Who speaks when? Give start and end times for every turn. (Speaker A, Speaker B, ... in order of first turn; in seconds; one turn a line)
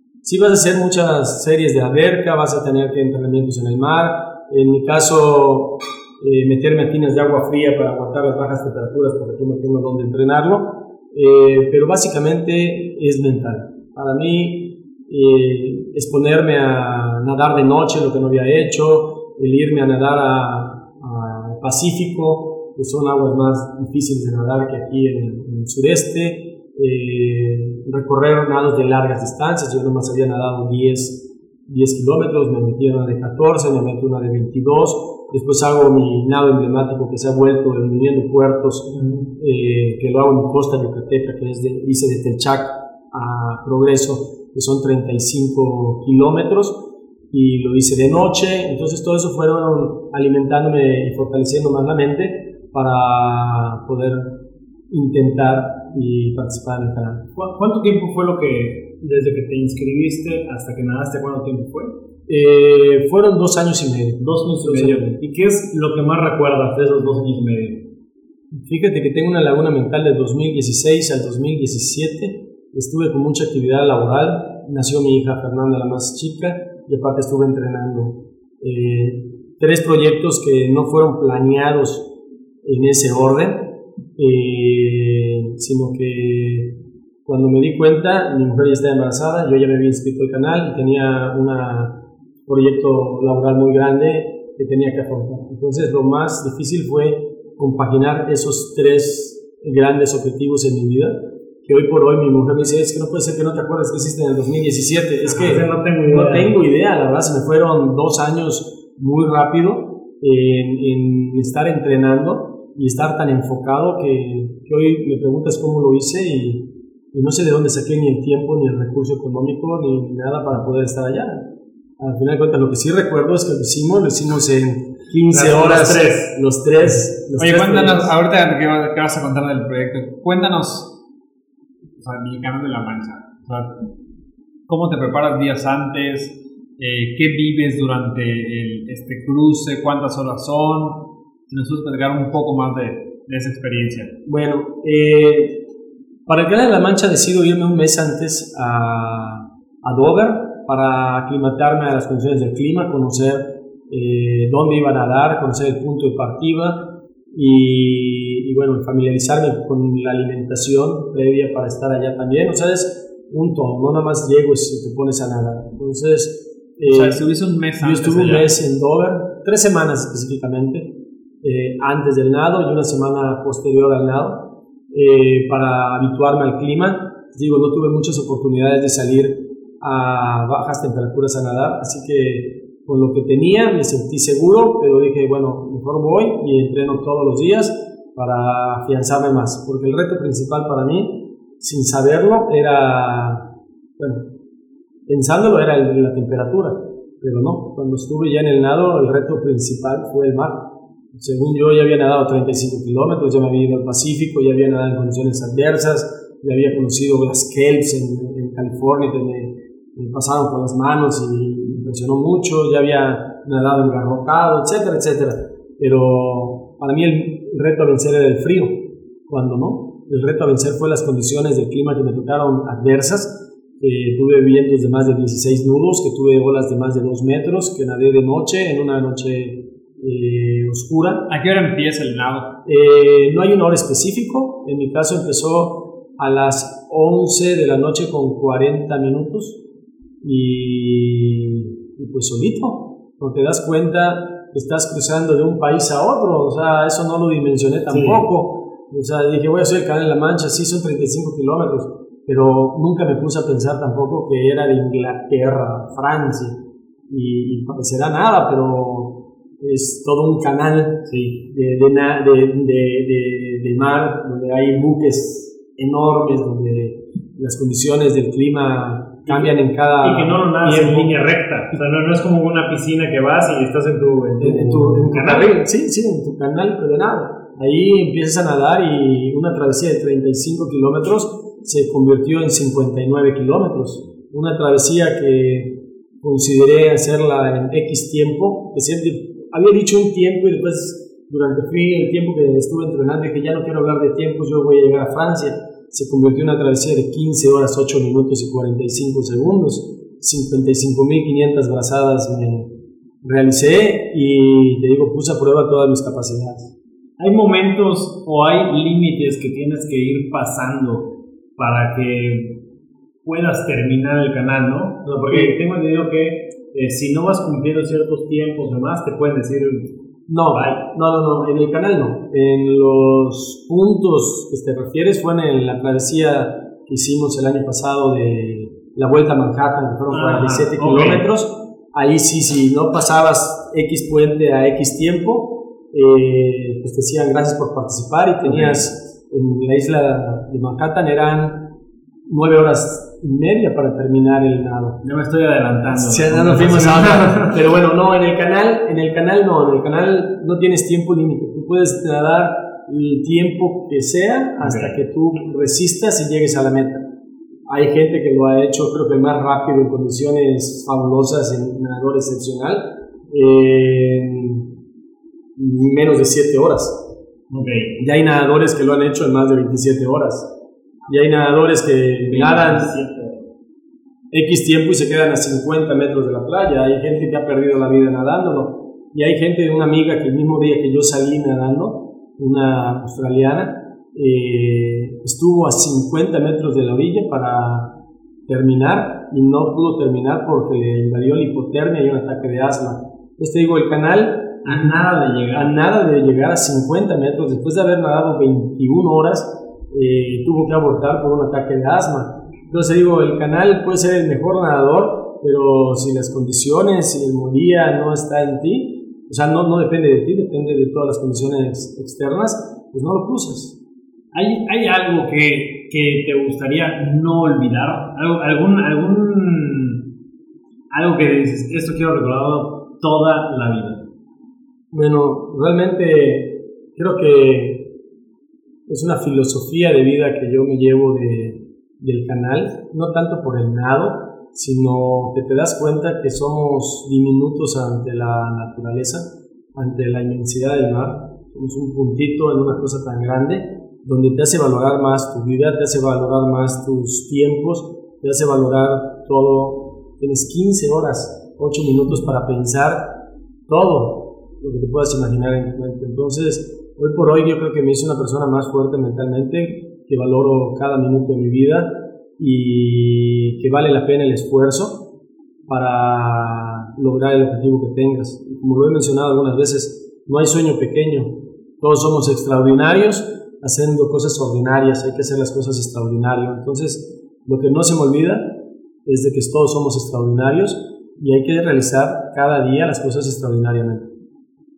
Speaker A: 0.2-54.4
Speaker A: 54.9-57.3
Speaker B: 57.4-61.9
Speaker A: 62.3-65.2
Speaker B: 64.2-67.8
Speaker A: 68.5-82.1
Speaker A: 82.6-86.7
Speaker A: 87.2-121.5
Speaker B: 105.2-106.6
Speaker A: 122.0-128.1
Speaker B: 125.3-126.4
Speaker C: 127.4-130.9
Speaker C: 132.0-133.8
Speaker C: 134.7-144.1
Speaker A: 144.3-145.6
Speaker A: 146.3-167.2
Speaker C: 166.9-168.6
Speaker A: 167.8-170.9
Speaker A: 171.4-193.5
Speaker A: 194.0-194.2
Speaker A: 195.1-231.3
Speaker C: 231.3-232.5
Speaker A: 232.7-239.6
Speaker A: 240.2-271.1
Speaker B: 247.9-248.3
Speaker B: 261.1-261.4
Speaker B: 269.3-275.6
Speaker A: 274.4-302.7
Speaker A: 303.2-306.7
Speaker B: 307.2-312.6
Speaker B: 313.2-319.9
Speaker A: 315.3-315.6
Speaker A: 320.3-341.7
Speaker B: 320.5-320.8
Speaker B: 330.1-331.2
Speaker B: 338.4-338.9
Speaker A: 342.3-345.0
Speaker B: 345.0-347.6
Speaker A: 345.9-357.1
Speaker B: 354.6-355.0
Speaker A: 357.7-364.7
Speaker A: 365.6-367.1
Speaker B: 367.5-367.9
Speaker A: 368.0-370.5
Speaker A: 371.1-372.9
Speaker B: 372.3-373.5
Speaker A: 374.3-387.9
Speaker A: 388.5-413.8
Speaker B: 394.6-395.7
Speaker B: 414.3-420.1
Speaker B: 420.9-424.0
Speaker A: 424.9-427.9
Speaker A: 428.9-453.1
Speaker A: 453.7-465.0
Speaker A: 465.7-478.4
Speaker A: 479.1-484.1